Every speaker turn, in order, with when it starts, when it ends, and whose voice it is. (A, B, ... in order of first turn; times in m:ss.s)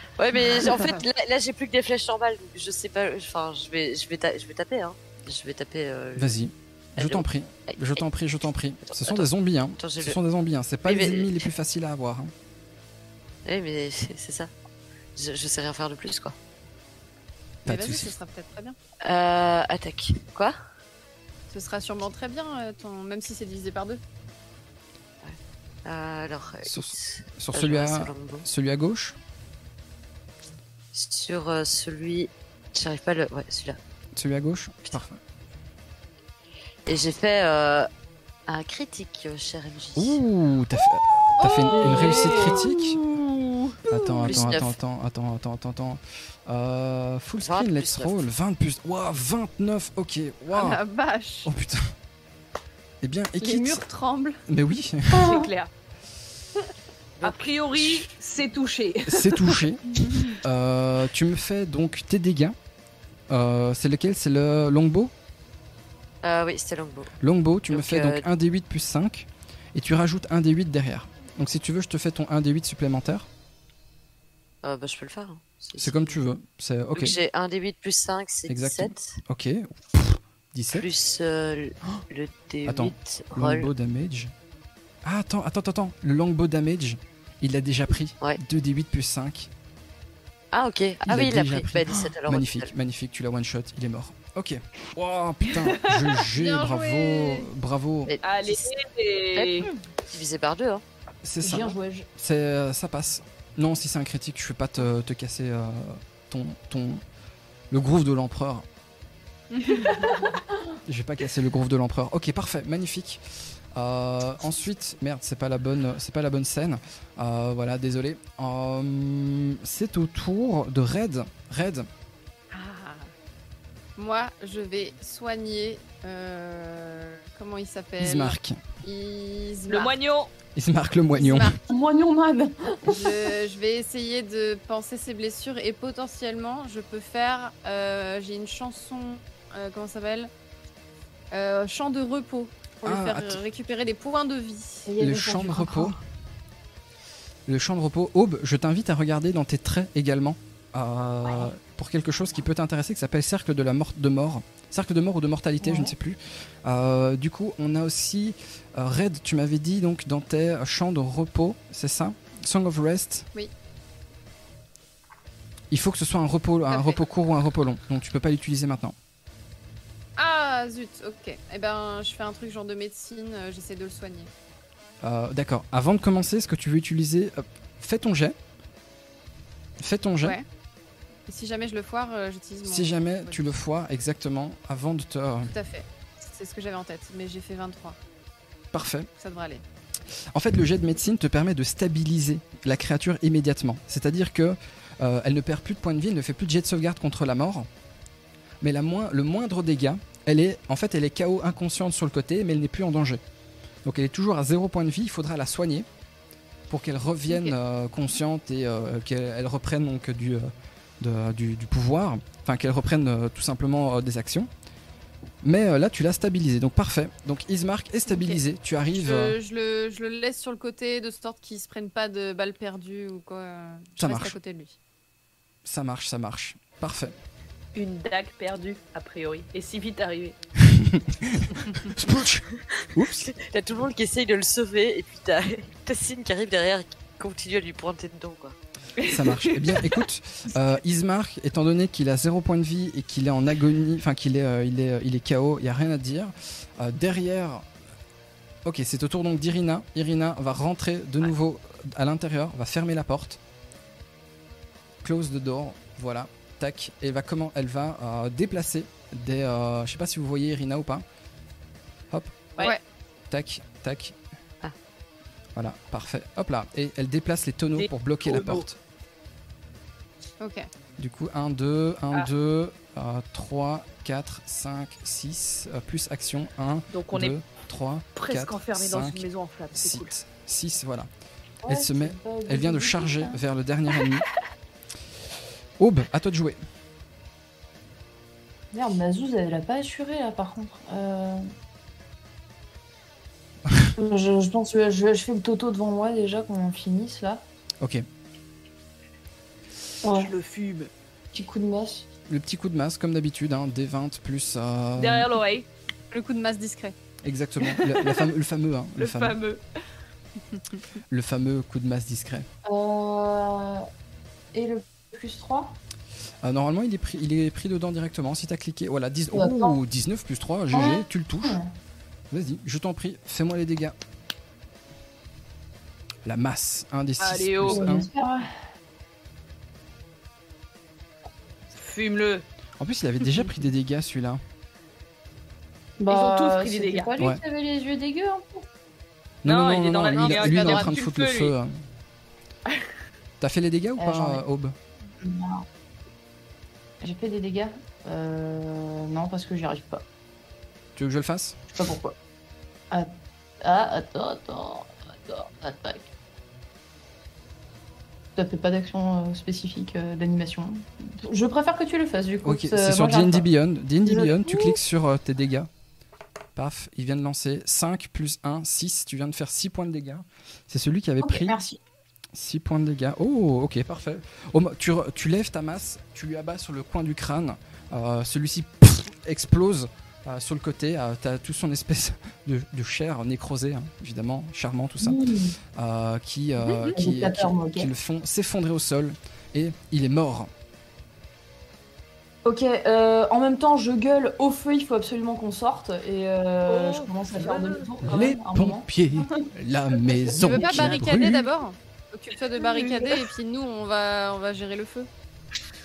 0:00.2-0:06.3 A
0:00.7-0:01.0 B
0:06.2-0:12.3 C
0:07.0-0:08.0 A
0:08.9-0:10.2 A
0:10.8-0:11.5 A
0:13.4-0:14.5 A
0:15.2-0:16.4 A
0:17.6-0:18.1 C
0:17.6-0:18.8 B
0:19.0-0:20.6 A
0:21.5-0:24.0 B
0:25.2-0:28.4 A
0:26.6-0:29.2 C
0:30.9-0:33.8 A
0:34.2-0:35.2 C
0:36.8-0:37.9 A
0:38.5-0:40.2 A
0:40.0-0:43.0 C
0:41.4-0:42.5 B
0:41.7-0:42.7 D
0:43.9-0:50.8 C
0:44.2-0:44.8 A
0:47.4-0:48.3 A
0:50.5-0:51.5 B
0:51.4-0:51.9 C
0:53.0-0:53.8 C
0:53.4-0:54.4 B
0:54.5-0:55.3 C
0:55.1-0:55.5 D
0:55.1-0:55.7 E
0:57.2-0:58.1 A
0:57.2-0:59.6 E
0:59.0-1:02.6 C
1:00.0-1:00.4 B
1:03.3-1:05.1 C
1:06.2-1:07.1 A
1:07.2-1:13.3 C
1:07.7-1:08.3 A
1:14.6-1:16.2 A
1:15.8-1:17.2 C
1:16.9-1:19.2 A
1:18.5-1:20.8 C
1:20.7-1:23.7 A
1:22.6-1:24.3 C
1:25.0-1:29.5 C
1:30.5-1:32.7 A
1:31.0-1:38.1 C
1:35.6-1:36.1 E
1:36.3-1:37.5 B
1:38.0-1:38.7 A
1:38.2-1:39.7 E
1:39.3-1:40.8 A
1:41.2-1:47.0 C
1:41.4-1:42.1 D
1:47.7-1:48.6 C
1:49.5-1:50.2 B
1:50.8-1:53.2 C
1:53.7-2:01.9 C
2:02.5-2:03.1 B
2:04.0-2:10.0 B
2:08.0-2:08.6 C
2:09.7-2:10.3 E
2:10.6-2:11.5 C
2:11.1-2:11.7 B
2:11.6-2:13.3 D
2:12.8-2:20.3 B
2:21.3-2:24.9 B
2:22.8-2:23.4 C
2:24.8-2:26.0 D
2:25.0-2:26.0 C
2:27.5-2:43.3 C
2:35.6-2:35.9 D
2:45.7-2:48.9 C
2:46.7-2:47.0 B
2:50.2-2:54.3 B
2:55.0-2:58.4 C
2:59.8-3:00.4 C
3:01.3-3:03.5 B
3:02.6-3:05.5 C
3:05.5-3:08.0 B
3:08.7-3:09.1 C
3:09.2-3:09.6 B
3:10.3-3:17.7 C
3:18.6-3:23.2 C
3:23.8-3:25.8 C
3:26.7-3:30.5 C
3:27.3-3:27.5 B
3:31.0-3:34.5 C
3:35.4-3:39.4 C
3:38.1-3:38.4 B
3:38.9-3:44.8 B
3:44.0-3:44.4 C
3:45.6-3:47.2 C
3:47.7-3:50.4 E
3:50.6-3:53.3 C
3:53.2-3:58.6 A
3:59.0-4:00.0 E
3:59.0-4:07.7 C
4:08.6-4:13.4 C
4:15.0-4:21.0 C
4:22.1-4:22.4 C
4:23.3-4:24.2 C
4:25.5-4:28.8 C
4:27.8-4:28.6 E
4:30.4-4:30.7 B
4:31.0-4:41.1 C
4:36.9-4:37.4 E
4:38.2-4:40.1 E
4:41.6-4:43.4 D
4:41.7-4:44.3 C
4:45.8-4:46.6 C
4:48.7-4:51.5 D
4:54.0-4:57.4 D
5:00.0-5:00.3 D
5:00.1-5:00.9 E
5:01.3-5:02.1 D
5:02.3-5:05.3 C
5:05.0-5:05.7 E
5:06.1-5:06.9 B
5:07.2-5:09.4 C
5:07.6-5:08.3 E
5:09.0-5:09.6 E
5:11.1-5:12.5 C
5:12.6-5:13.8 D
5:14.5-5:15.8 D
5:16.4-5:21.6 C
5:19.3-5:19.8 D
5:20.7-5:21.7 D
5:22.3-5:24.0 C
5:26.2-5:28.1 C
5:27.2-5:27.9 E
5:27.7-5:28.5 D
5:31.7-5:32.4 E
5:32.8-5:34.4 C
5:36.0-5:38.7 D
5:36.1-5:37.1 E
5:39.4-5:41.7 C
5:39.4-5:41.5 E
5:40.1-5:40.9 B
5:43.4-5:44.7 C
5:44.0-5:44.4 D
5:45.2-5:45.6 D
5:47.0-5:50.0 D
5:51.0-5:51.6 C
5:51.7-5:52.2 D
5:52.9-5:56.1 D
5:58.4-6:03.4 D
6:02.4-6:05.7 C
6:04.0-6:04.8 D
6:06.6-6:11.5 C
6:11.2-6:11.8 D
6:12.3-6:30.5 C
6:25.0-6:25.6 D
6:26.9-6:27.9 D
6:32.4-6:41.0 D
6:36.6-6:37.9 E
6:38.0-6:41.4 C
6:40.4-6:45.1 B
6:42.7-6:43.0 E